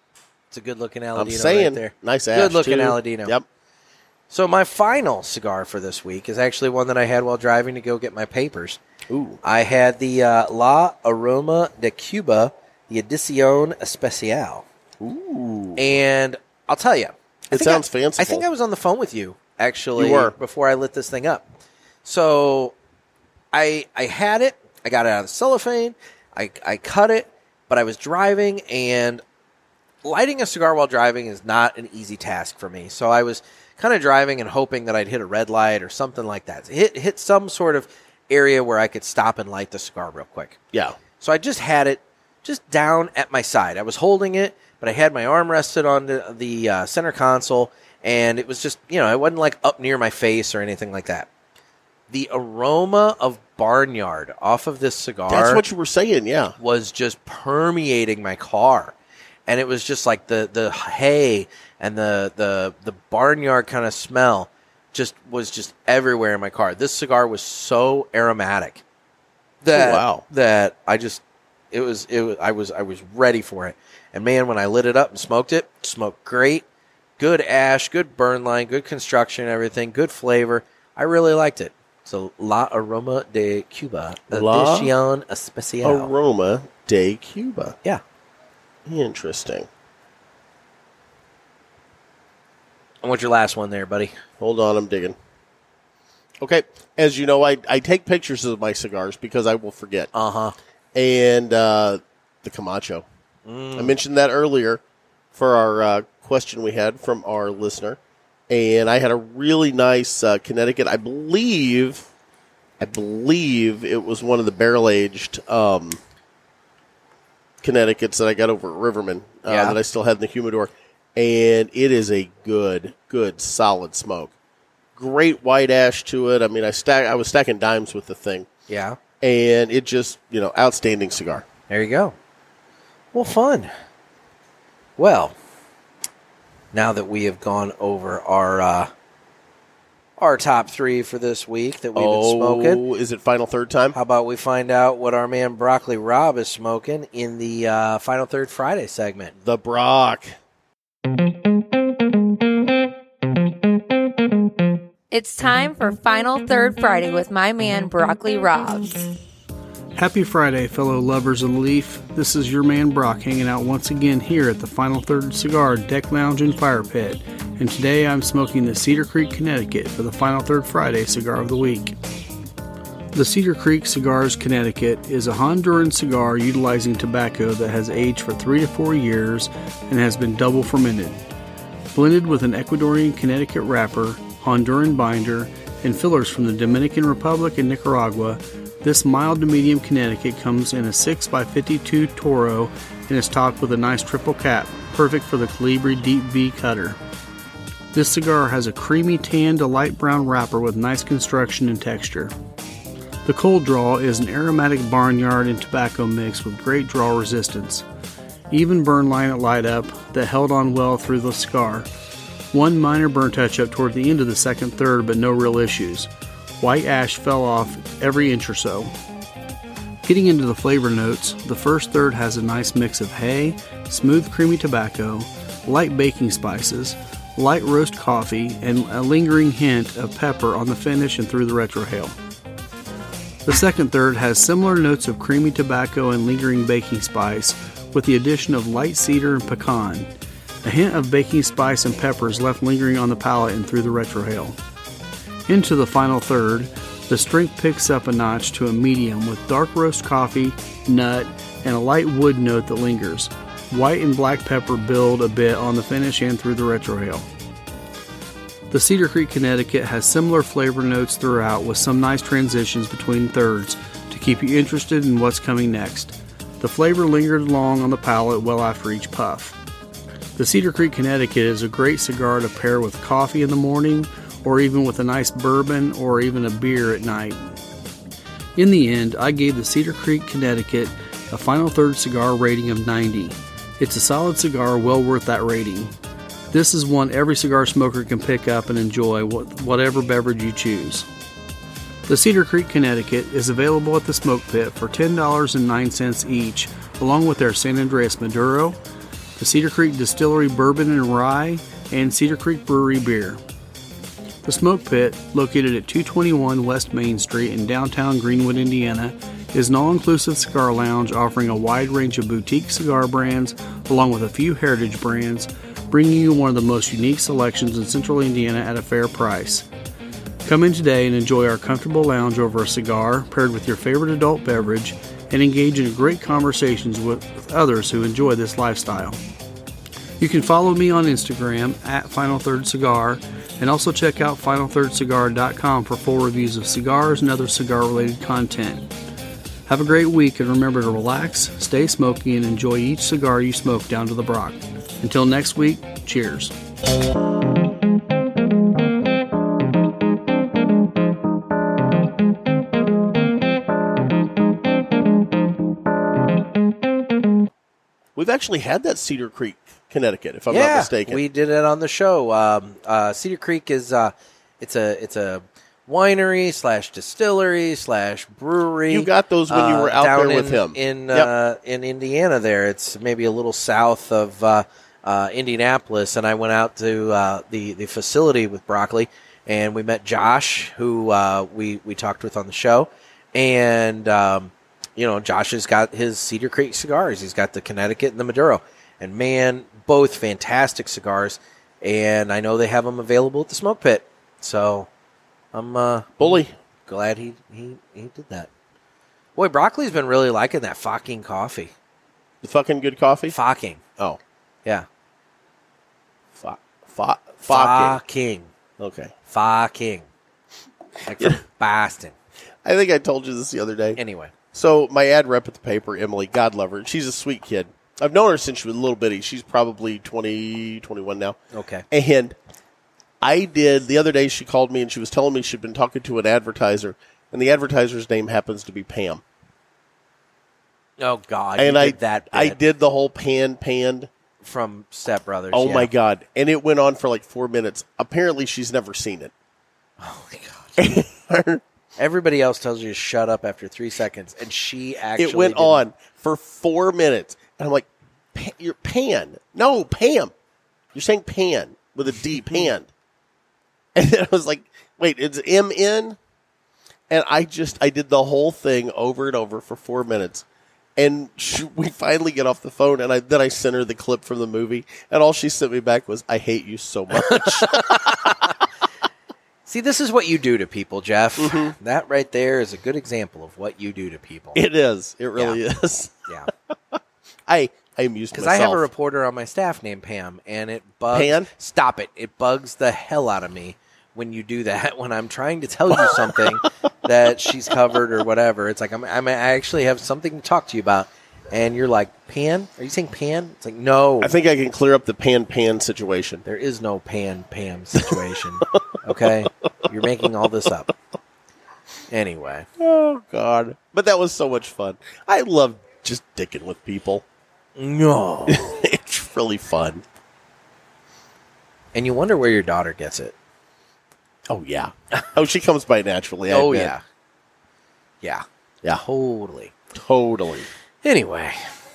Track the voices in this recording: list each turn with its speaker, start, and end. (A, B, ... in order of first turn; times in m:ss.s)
0:00.5-0:03.3 A
0:01.2-0:03.4 B
0:04.3-0:08.8 A
0:09.1-0:09.4 B
0:09.4-0:14.6 A
0:15.0-0:15.9 B
0:15.8-0:21.5 A
0:17.5-0:18.5 B
0:20.0-0:20.3 B
0:22.0-0:22.7 A
0:23.5-0:29.2 A
0:30.0-0:40.6 A
0:41.2-0:51.3 A
0:52.1-0:55.6 A
0:55.3-0:56.5 B
0:56.6-0:58.9 A
0:59.5-1:08.8 A
1:09.6-1:16.6 A
1:09.7-1:10.2 B
1:17.2-1:26.1 A
1:24.3-1:24.9 B
1:25.8-1:27.7 B
1:28.8-1:29.7 B
1:33.0-1:34.1 A
1:34.4-1:35.1 B
1:36.4-1:40.1 B
1:40.1-1:40.5 A
1:40.9-1:43.0 B
1:43.4-1:44.0 A
1:43.8-1:44.8 B
1:45.3-1:48.0 B
1:48.5-1:52.0 B
1:52.8-1:56.0 B
1:57.6-2:04.3 B
1:59.4-1:59.8 A
2:05.0-2:08.5 B
2:08.7-2:09.0 A
2:09.2-2:11.4 B
2:11.7-2:12.1 A
2:13.1-2:13.7 A
2:15.0-2:15.4 A
2:16.7-2:18.9 A
2:20.2-2:22.8 A
2:21.9-2:24.0 B
2:23.9-2:29.3 A
2:29.4-2:30.3 B
2:35.1-2:39.0 C
2:39.9-2:51.9 D
2:53.1-3:01.2 D
3:01.9-3:17.0 D
3:17.9-3:22.3 D
3:23.2-3:27.8 D
3:28.5-3:31.9 D
3:32.5-3:36.1 D
3:36.6-3:38.9 D
3:40.0-3:52.1 D
3:53.4-4:00.1 D
4:00.6-4:04.6 D
4:05.5-4:17.2 D
4:18.7-4:29.5 D
4:30.4-4:37.5 D
4:38.6-4:45.9 D
4:46.5-4:51.0 D
4:52.1-4:58.8 D
4:59.4-5:03.4 D
5:04.4-5:19.6 D
5:20.4-5:29.2 D
5:30.2-5:38.9 D
5:39.7-5:46.5 D
5:58.2-6:01.2 B
6:00.5-6:34.9 A
6:08.9-6:11.3 B
6:35.5-6:38.5 A
6:36.2-6:36.5 B
6:39.4-6:41.7 A
6:42.4-6:43.4 B
6:43.3-6:43.8 A
6:46.4-6:48.0 B
6:47.5-6:48.5 A
6:48.8-6:49.1 B
6:49.3-6:50.0 A
6:51.1-6:52.1 A
6:52.6-6:54.0 B
6:54.0-6:54.3 A
6:54.5-7:01.4 B
7:01.5-7:01.8 A
7:01.9-7:02.3 B
7:03.2-7:09.2 B
7:11.0-7:12.6 A
7:11.6-7:14.1 B
7:14.4-7:15.9 A
7:15.5-7:19.3 B
7:20.0-7:20.8 A
7:20.8-7:21.6 B
7:22.0-7:25.8 A
7:25.2-7:30.3 B
7:30.9-7:32.9 B
7:33.9-7:36.2 B
7:37.1-7:40.4 B
7:41.0-7:48.1 B
7:47.1-7:48.6 A
7:49.6-7:54.6 A
7:51.4-7:51.7 B
7:54.5-7:56.2 B
7:55.4-7:55.6 A
7:57.5-7:58.9 B
7:58.3-8:14.3 A
8:01.1-8:01.5 B
8:14.2-8:16.4 B
8:16.4-8:20.9 A
8:22.1-8:22.7 A
8:22.8-8:27.2 B
8:27.8-8:28.7 A
8:28.5-8:30.0 B
8:31.9-8:33.3 A
8:34.5-8:36.9 B
8:36.5-8:37.0 A
8:39.0-8:39.7 A
8:39.9-8:40.7 B
8:41.0-8:41.6 A